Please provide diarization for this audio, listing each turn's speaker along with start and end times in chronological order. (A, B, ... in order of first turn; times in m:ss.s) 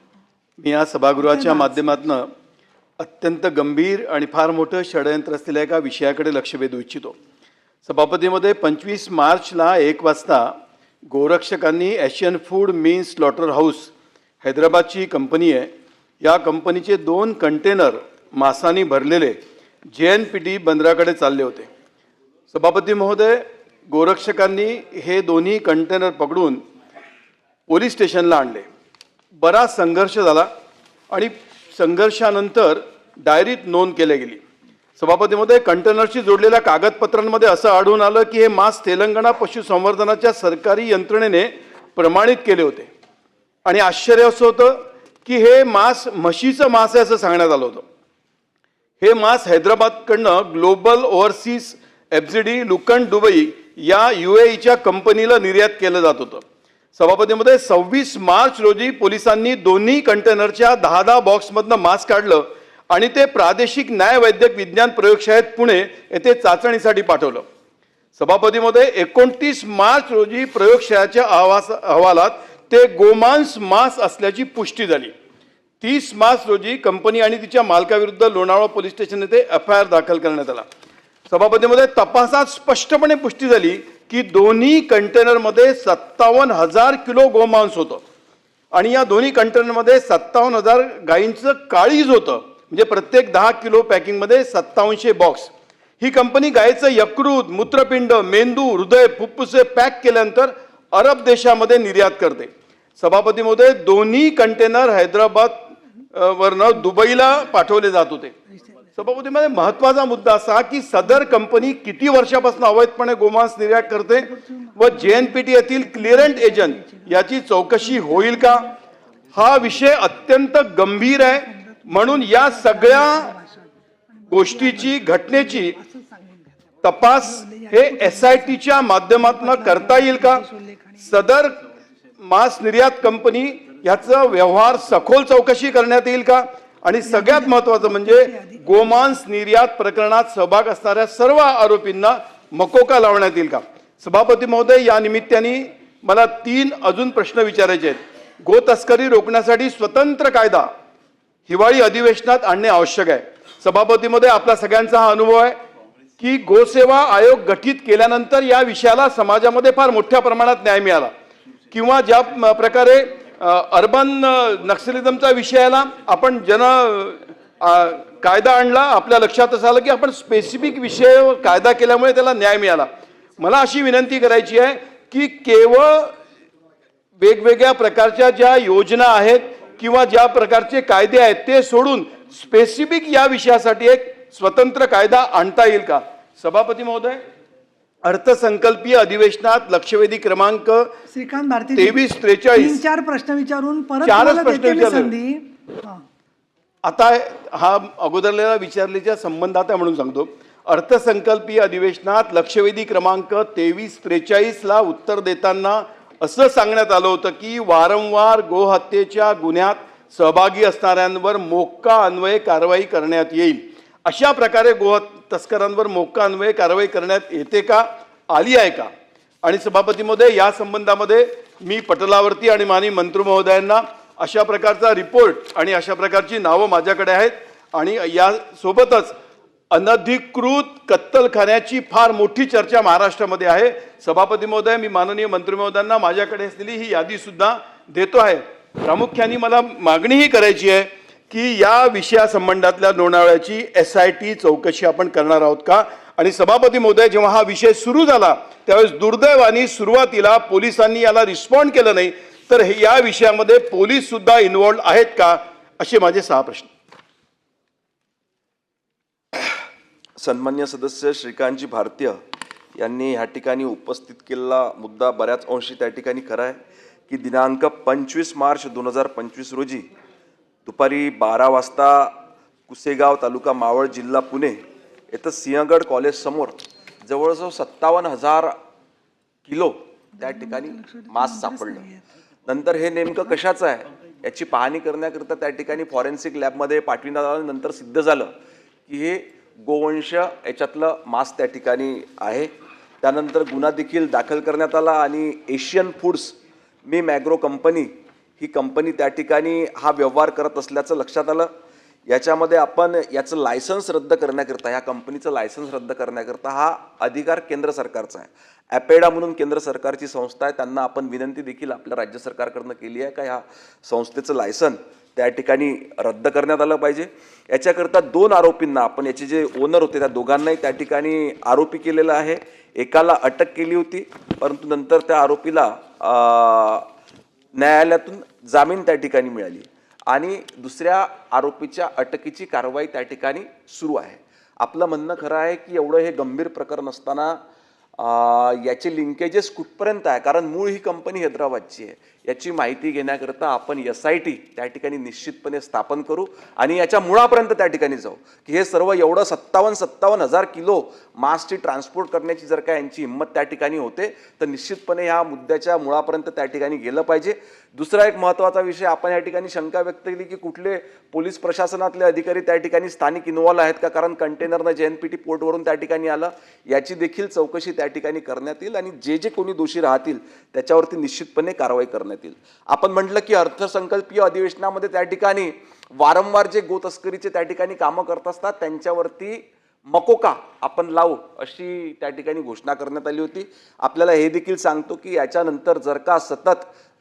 0:00.6-0:02.3 A
0:01.2-0:01.9 B
0:03.0-0:07.1 A
0:07.8-0:10.5 A
0:11.1-0:13.9 A
0:14.4-0:15.7 A
0:16.2-0:19.4 A
0:19.9-0:21.7 A
0:22.5-0:26.6 A
0:27.7-0:28.7 A
0:29.4-0:30.5 A
0:31.1-0:34.4 A
0:35.0-0:42.9 A
0:43.7-0:47.8 A
0:49.0-0:56.4 A
0:56.9-1:07.4 A
1:08.2-1:15.1 A
1:15.8-1:20.7 A
1:21.3-1:28.0 A
1:28.7-1:48.4 A
1:49.0-1:58.7 A
1:54.3-1:57.3 B
1:57.8-1:58.6 B
1:59.3-2:03.3 A
2:01.1-2:06.6 B
2:04.3-2:05.8 A
2:06.8-2:10.4 A
2:07.1-2:11.1 B
2:11.0-2:11.6 A
2:12.2-2:30.7 A
2:17.1-2:19.1 B
2:31.5-2:35.6 A
2:36.2-2:41.1 A
2:41.7-2:56.1 A
2:57.2-3:07.2 A
3:08.0-3:10.9 A
3:11.1-3:12.0 B
3:11.8-3:12.8 A
3:12.5-3:16.0 B
3:14.0-3:15.1 A
3:16.8-3:38.9 A
3:39.4-3:49.2 A
3:49.7-4:16.7 A
4:20.2-4:22.2 C
4:22.8-4:26.6 C
4:27.1-4:29.9 C
4:30.7-4:32.1 C
4:32.7-4:34.6 C
4:35.1-4:38.6 C
4:39.5-4:41.9 C
4:40.2-4:42.0 B
4:42.5-4:48.3 C
4:48.9-4:52.5 C
4:53.0-4:56.4 C
4:56.9-5:01.5 C
5:02.1-5:26.9 C
5:27.6-5:37.4 C
5:38.0-6:26.7 C